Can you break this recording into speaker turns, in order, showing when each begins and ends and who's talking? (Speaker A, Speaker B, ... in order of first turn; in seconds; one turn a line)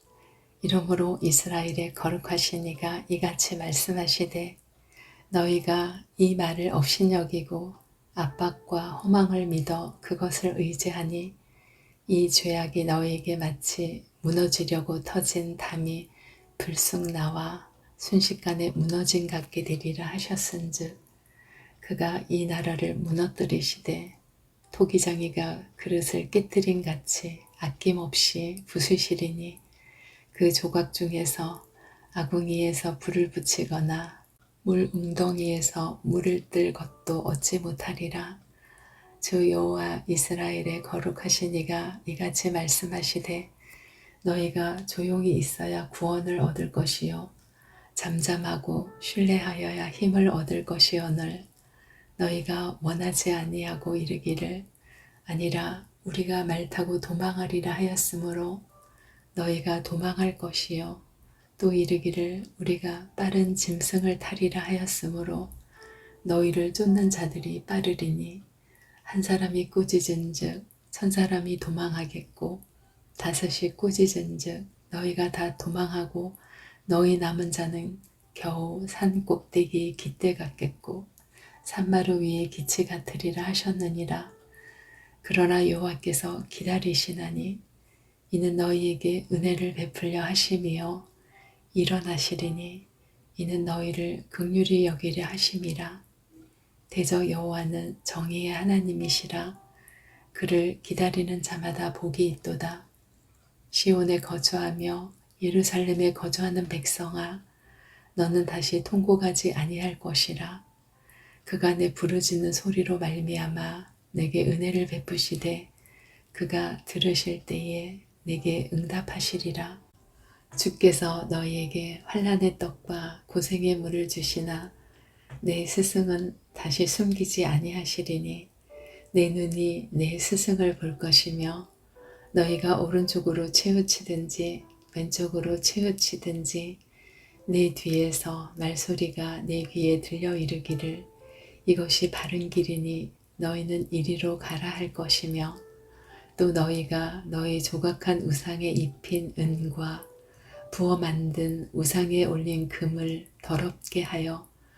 Speaker A: 0.6-4.6
Speaker A: 5.3-11.4
Speaker A: 12.1-21.0
Speaker A: 21.8-24.2
Speaker A: 24.7-29.6
Speaker A: 30.3-38.4
Speaker A: 39.2-43.5
Speaker A: 44.2-47.3
Speaker A: 48.0-51.5
Speaker A: 52.2-54.7
Speaker A: 55.3-58.6
Speaker A: 59.3-61.0
Speaker A: 61.6-65.5
Speaker A: 66.2-68.4
Speaker A: 69.0-72.7
Speaker A: 73.2-81.1
Speaker A: 81.6-84.3
Speaker A: 85.2-87.6
Speaker A: 88.3-91.1
Speaker A: 91.7-96.0
Speaker A: 96.9-99.6
Speaker A: 100.3-102.9
Speaker A: 103.7-107.5
Speaker A: 108.2-110.7
Speaker A: 111.5-115.7
Speaker A: 116.3-119.8
Speaker A: 120.5-124.7
Speaker A: 125.4-128.5
Speaker A: 129.1-131.7
Speaker A: 132.3-136.8
Speaker A: 137.5-141.1
Speaker A: 141.7-145.6
Speaker A: 146.4-150.1
Speaker A: 150.7-154.5